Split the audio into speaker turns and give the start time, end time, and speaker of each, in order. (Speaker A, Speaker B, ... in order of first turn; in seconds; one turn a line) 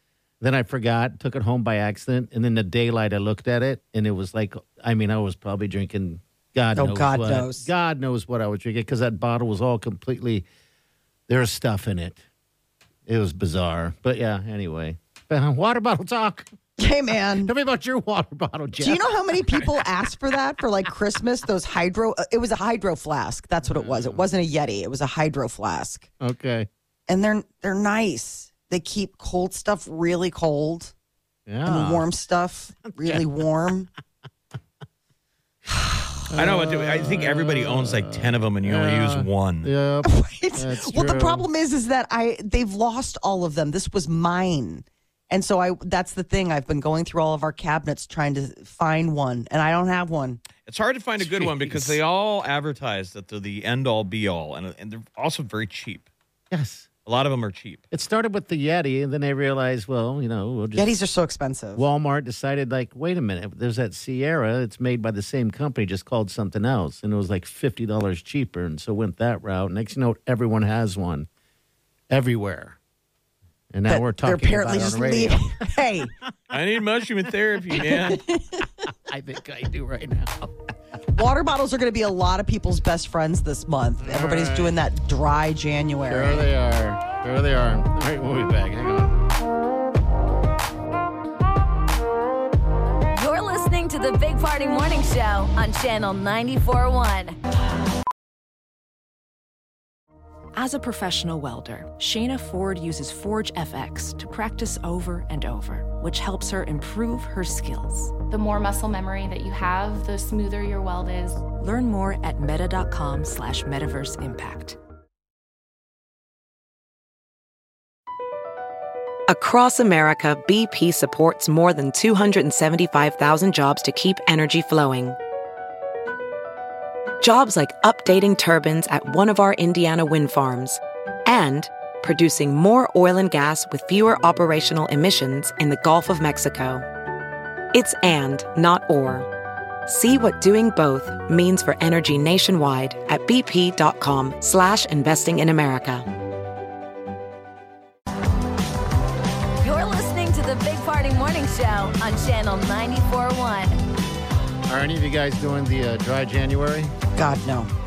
Speaker A: 0.4-10.5
Speaker B: 6.7-7.7
Speaker A: 11.3-12.2
Speaker A: 13.1-16.5
Speaker B: 16.8-17.5
Speaker A: 17.4-19.0
Speaker B: 18.8-26.1
Speaker A: 23.6-24.2
Speaker A: 26.2-26.7
Speaker B: 27.1-30.9
Speaker A: 31.5-32.0
Speaker B: 31.6-33.9
Speaker A: 32.9-33.2
Speaker B: 35.7-36.3
Speaker A: 36.3-41.4
Speaker C: 36.4-39.7
Speaker B: 40.0-50.4
Speaker C: 50.6-56.1
Speaker A: 51.2-52.0
Speaker A: 56.5-56.9
Speaker C: 57.0-57.8
Speaker A: 57.9-60.9
Speaker B: 60.7-61.8
Speaker A: 61.8-71.3
Speaker A: 72.1-72.8
Speaker A: 73.7-75.7
Speaker B: 73.9-76.1
Speaker C: 76.5-78.2
Speaker B: 77.8-78.7
Speaker A: 78.8-80.5
Speaker B: 81.1-86.5
Speaker A: 84.0-84.8
Speaker A: 86.0-89.2
Speaker D: 93.2-97.4
Speaker E: 100.5-108.1
Speaker F: 108.3-111.4
Speaker E: 111.6-114.8
Speaker G: 119.3-125.2
Speaker G: 127.2-136.9
Speaker G: 137.7-139.3
Speaker G: 139.9-146.1
Speaker D: 149.6-153.8
Speaker A: 154.7-156.9
Speaker B: 157.2-157.7